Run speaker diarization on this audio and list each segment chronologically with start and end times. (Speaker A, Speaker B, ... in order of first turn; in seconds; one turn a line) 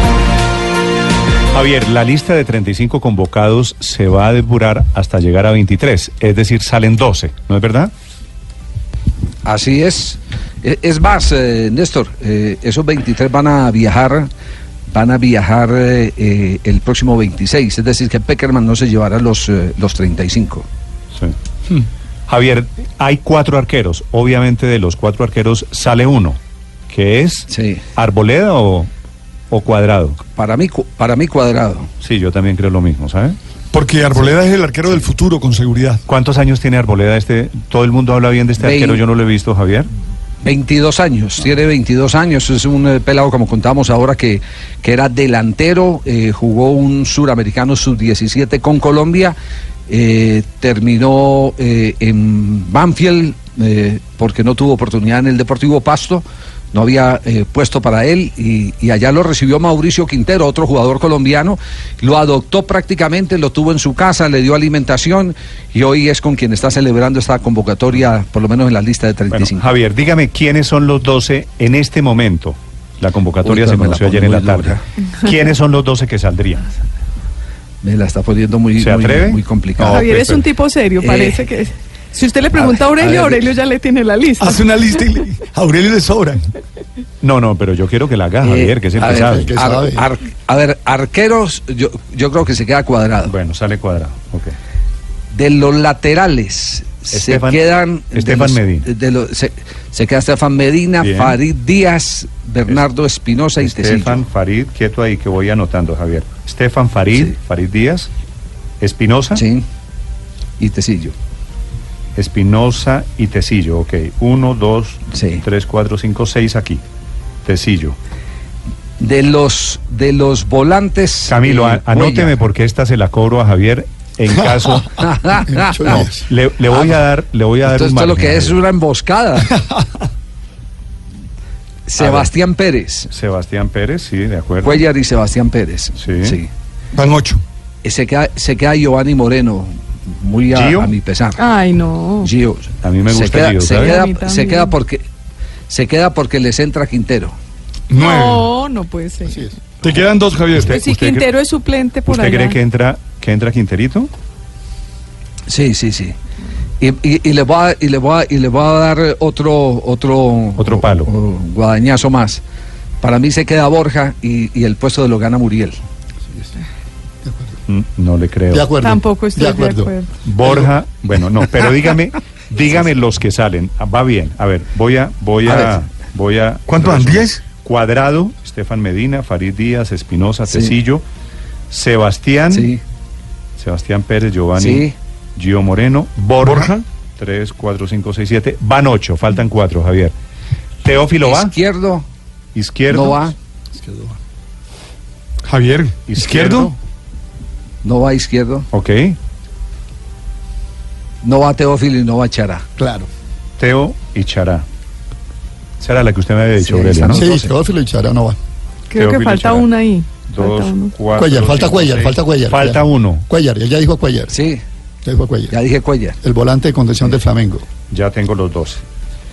Speaker A: 1.5-7.9
Speaker B: 9.4-14.3
Speaker B: 14.9-20.6
Speaker A: 22.3-26.4
Speaker A: 26.9-28.9
Speaker B: 27.5-27.8
Speaker A: 29.5-30.2
Speaker B: 30.3-31.9
Speaker A: 32.0-33.4
Speaker C: 33.7-36.0
Speaker A: 36.0-39.9
Speaker B: 38.6-39.0
Speaker B: 40.4-49.4
Speaker B: 49.9-69.7
Speaker A: 69.3-76.7
Speaker B: 73.4-74.8
Speaker B: 77.8-80.0
Speaker A: 78.8-80.4
Speaker D: 79.9-84.7
Speaker B: 81.0-81.5
Speaker B: 82.5-83.5
Speaker C: 84.4-86.4
Speaker A: 87.2-89.5
Speaker B: 88.4-93.3
Speaker E: 89.1-90.0
Speaker A: 93.2-94.5
Speaker B: 95.3-104.2
Speaker A: 97.1-98.9
Speaker A: 101.0-101.4
Speaker A: 103.6-108.1
Speaker A: 108.8-109.4
Speaker B: 109.3-109.7
Speaker B: 110.6-111.1
Speaker A: 112.2-116.8
Speaker B: 115.1-115.4
Speaker A: 117.4-118.0
Speaker B: 119.0-122.3
Speaker A: 121.3-128.6
Speaker B: 125.0-126.0
Speaker E: 125.5-126.2
Speaker B: 126.7-127.1
Speaker B: 127.6-129.5
Speaker B: 131.9-133.1
Speaker A: 132.0-132.3
Speaker A: 133.1-134.8
Speaker B: 134.6-136.5
Speaker A: 136.0-136.4
Speaker C: 136.9-137.4
Speaker B: 137.8-141.4
Speaker A: 140.5-140.9
Speaker D: 141.4-142.3
Speaker B: 142.2-145.0
Speaker A: 142.8-144.0
Speaker D: 143.7-144.8
Speaker B: 145.7-147.3
Speaker C: 147.9-148.5
Speaker D: 148.0-149.4
Speaker E: 149.3-149.5
Speaker C: 149.8-150.8
Speaker A: 150.5-151.3
Speaker D: 150.7-152.6
Speaker A: 152.0-154.1
Speaker B: 155.5-156.1
Speaker B: 156.8-162.4
Speaker A: 160.6-161.1
Speaker B: 163.0-165.8
Speaker E: 167.2-167.6
Speaker A: 167.7-168.7
Speaker E: 168.5-169.9
Speaker D: 168.8-170.1
Speaker A: 170.2-181.0
Speaker B: 175.4-175.8
Speaker C: 176.7-177.4
Speaker B: 180.5-180.8
Speaker A: 181.7-182.7
Speaker B: 182.5-182.8
Speaker A: 183.6-190.1
Speaker B: 184.6-184.9
Speaker C: 186.4-186.8
Speaker A: 190.8-191.5
Speaker B: 191.2-192.0
Speaker A: 192.5-193.3
Speaker B: 192.9-193.3
Speaker E: 193.8-194.1
Speaker C: 195.5-196.7
Speaker A: 196.1-196.8
Speaker B: 197.8-198.7
Speaker A: 198.7-199.2
Speaker B: 201.2-202.6
Speaker E: 202.8-203.1
Speaker A: 203.6-204.6
Speaker A: 205.8-207.2
Speaker B: 206.6-207.5
Speaker E: 207.1-208.4
Speaker D: 208.9-210.9
Speaker A: 208.9-209.7
Speaker A: 210.3-213.2
Speaker E: 211.1-214.3
Speaker B: 214.3-214.6
Speaker E: 215.0-215.6
Speaker B: 215.5-216.2
Speaker E: 216.2-217.7
Speaker A: 217.9-218.8